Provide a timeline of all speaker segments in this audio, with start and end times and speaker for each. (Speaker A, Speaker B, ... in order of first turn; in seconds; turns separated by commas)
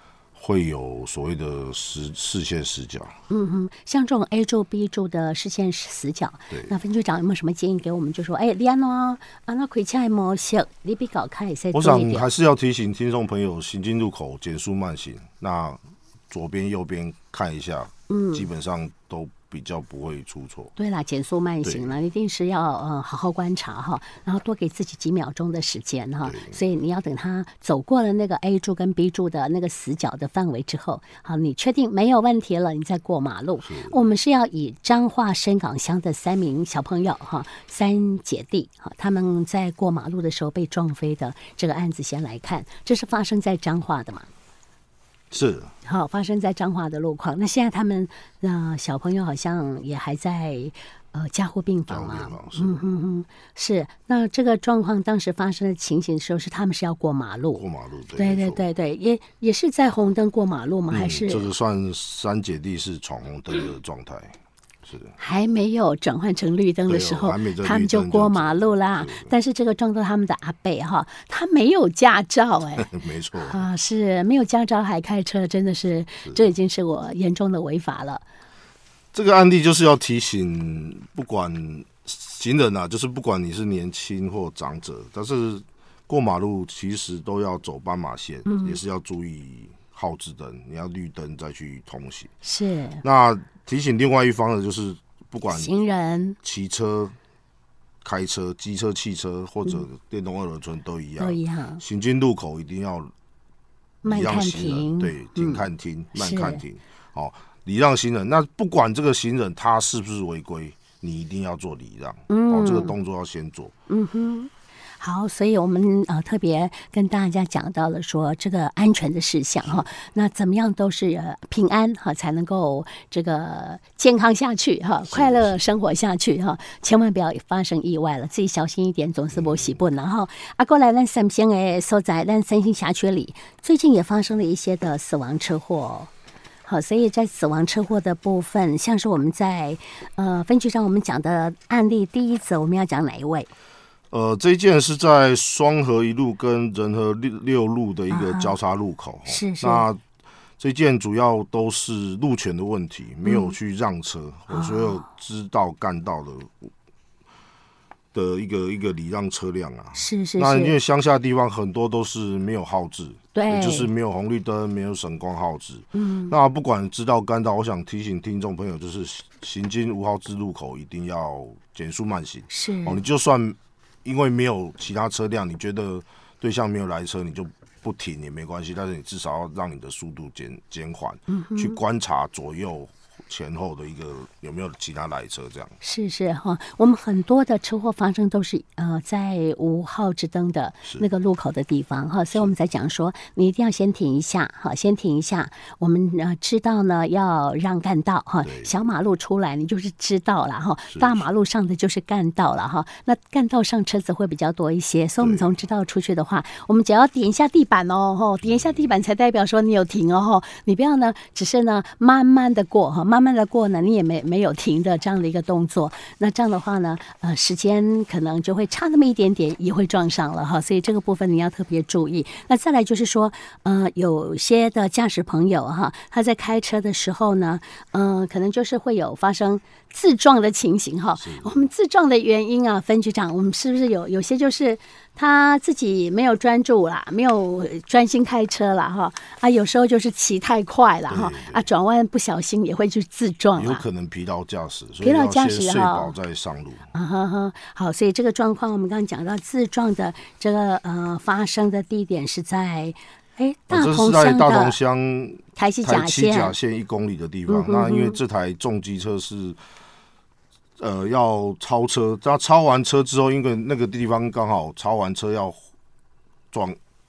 Speaker A: 0.3-3.1, Speaker B: 3.3-12.3, Speaker A: 11.7-20.7, Speaker B: 18.1-18.5, Speaker B: 20.8-44.3, Speaker A: 21.6-21.9, Speaker A: 26.2-26.6, Speaker A: 33.6-34.0, Speaker A: 45.3-45.7, Speaker B: 45.8-57.6, Speaker A: 51.9-52.8, Speaker A: 57.5-58.6, Speaker B: 58.2-61.5, Speaker A: 60.9-65.1, Speaker B: 65.2-78.2, Speaker A: 66.9-69.3, Speaker A: 72.8-73.7, Speaker A: 76.2-76.5, Speaker A: 79.1-92.3, Speaker B: 88.5-88.8, Speaker B: 92.4-93.0, Speaker A: 93.0-95.7, Speaker B: 95.5-96.4, Speaker A: 96.4-97.1, Speaker A: 98.0-103.1, Speaker B: 101.2-101.8, Speaker B: 104.0-105.6, Speaker A: 104.0-113.7, Speaker B: 106.1-106.6, Speaker B: 112.3-112.9, Speaker B: 113.9-136.1, Speaker A: 119.6-119.9, Speaker A: 125.1-125.5, Speaker A: 129.3-129.8, Speaker B: 136.7-143.5, Speaker A: 144.1-150.0, Speaker B: 148.1-148.5, Speaker B: 149.2-149.9, Speaker A: 150.6-156.6, Speaker B: 153.2-153.5, Speaker B: 154.5-155.1, Speaker A: 158.1-185.7, Speaker B: 159.9-160.8, Speaker B: 163.3-163.9, Speaker B: 165.9-166.3, Speaker B: 172.5-173.0, Speaker B: 181.3-181.8, Speaker B: 185.8-243.8, Speaker A: 198.4-198.9, Speaker A: 200.9-201.3, Speaker A: 205.2-205.5, Speaker A: 208.4-208.9, Speaker A: 231.2-231.7, Speaker A: 241.1-241.7, Speaker A: 243.5-246.9, Speaker B: 245.0-246.1, Speaker B: 246.9-254.8, Speaker A: 253.7-259.6, Speaker B: 255.6-256.6, Speaker B: 257.5-258.2, Speaker A: 260.8-265.6, Speaker A: 266.5-266.8